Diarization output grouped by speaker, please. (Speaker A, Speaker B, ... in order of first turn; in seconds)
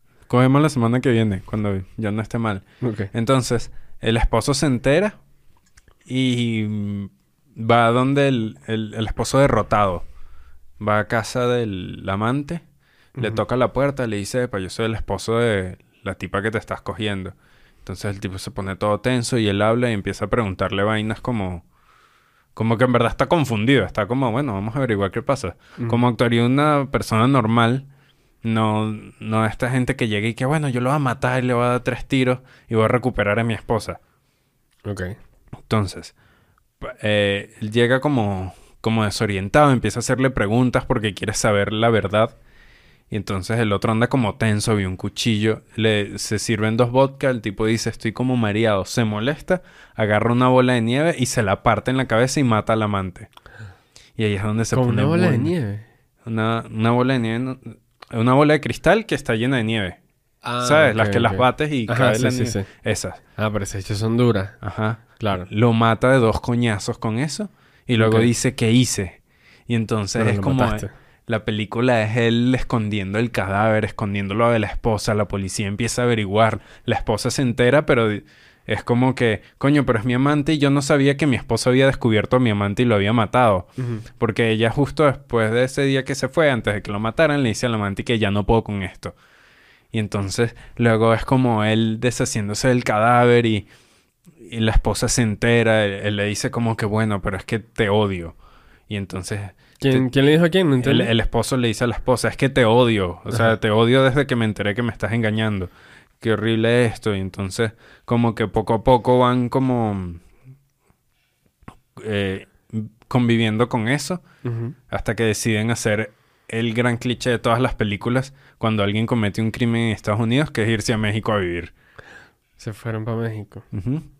Speaker A: 0.3-5.2, 6.1-10.1, 10.8-12.6, 13.2-21.6, 22.6-27.9, 28.4-34.0, 35.7-36.1, 36.8-42.4, 43.1-53.3, 54.2-55.5, 56.2-60.0, 60.6-63.2, 64.6-89.2, 89.9-93.7, 94.4-98.4, 98.9-100.1, 100.8-110.2, 112.0-114.2, 114.9-121.7, 123.7-124.1
Speaker B: 2.8-3.1, 25.8-26.0, 34.9-35.2, 54.7-55.9, 60.4-62.7, 63.4-64.6, 65.2-65.5, 68.0-68.3, 70.2-70.9, 83.8-84.0, 99.8-101.1, 114.4-114.8, 122.6-123.7